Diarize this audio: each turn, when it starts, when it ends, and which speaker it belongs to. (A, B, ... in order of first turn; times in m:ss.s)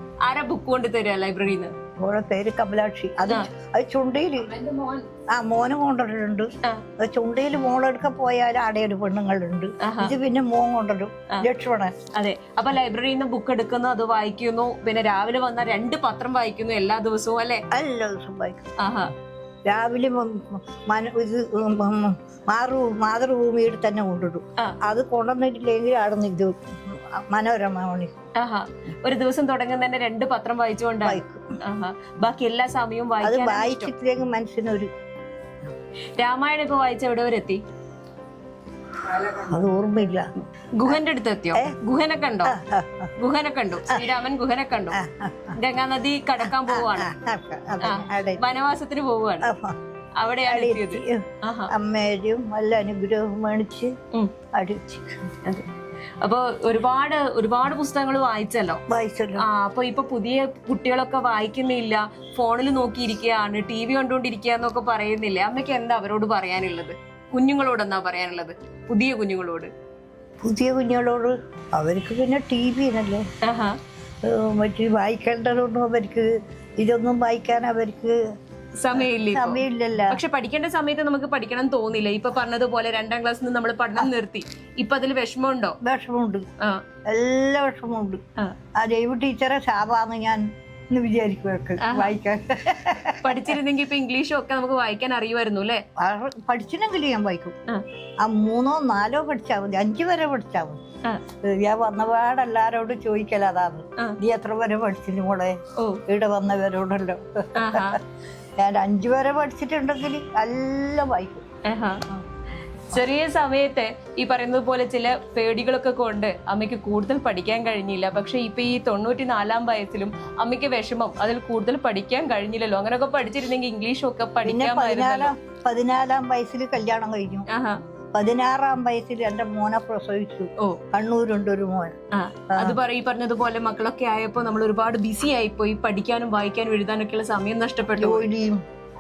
0:00.3-0:01.7 A
0:02.0-0:04.5 B
0:04.6-0:05.0 A
0:05.3-0:12.0 B
0:09.8-0:10.2 A
0:12.2-0:17.6 A
0:17.7-0:18.7 B
0:18.8-0:19.1 A
0:19.7-0:28.1 B
0:28.4-0:33.9 A
0:31.0-0:31.4 B
0:33.2-0:34.9 B
0:36.2-0:37.6 A
0:39.1-0:40.3 B
0:40.8-0:42.6 A
0:42.4-0:43.1 B
0:43.2-0:45.0 A
0:44.9-0:45.6 B
0:45.6-0:47.1 A
0:46.4-0:48.4 B
0:47.8-0:49.5 A
0:49.4-0:49.8 B
0:50.2-0:51.7 A
0:50.5-0:53.9 B
0:54.5-0:55.2 B
0:56.2-0:58.8 A
0:58.9-0:59.5 B
0:59.4-1:09.7 A
1:10.4-1:13.2 B
1:13.4-1:13.8 A
1:14.2-1:18.2 B
1:18.8-1:25.8 A
1:19.0-1:20.2 B
1:25.8-1:26.5 B
1:27.1-1:28.2 B
1:28.8-1:33.6 B
1:31.8-1:32.2 A
1:33.2-1:35.8 A
1:36.0-1:37.6 B
1:38.2-1:40.8 B
1:41.4-1:48.0 B
1:47.6-1:48.0 A
1:48.6-1:51.5 B
1:51.7-1:52.0 A
1:52.9-2:05.3 A
2:04.4-2:07.5 B
2:07.5-2:07.8 A
2:08.1-2:12.0 B
2:12.1-2:18.3 A
2:12.5-2:12.8 B
2:18.0-2:18.6 B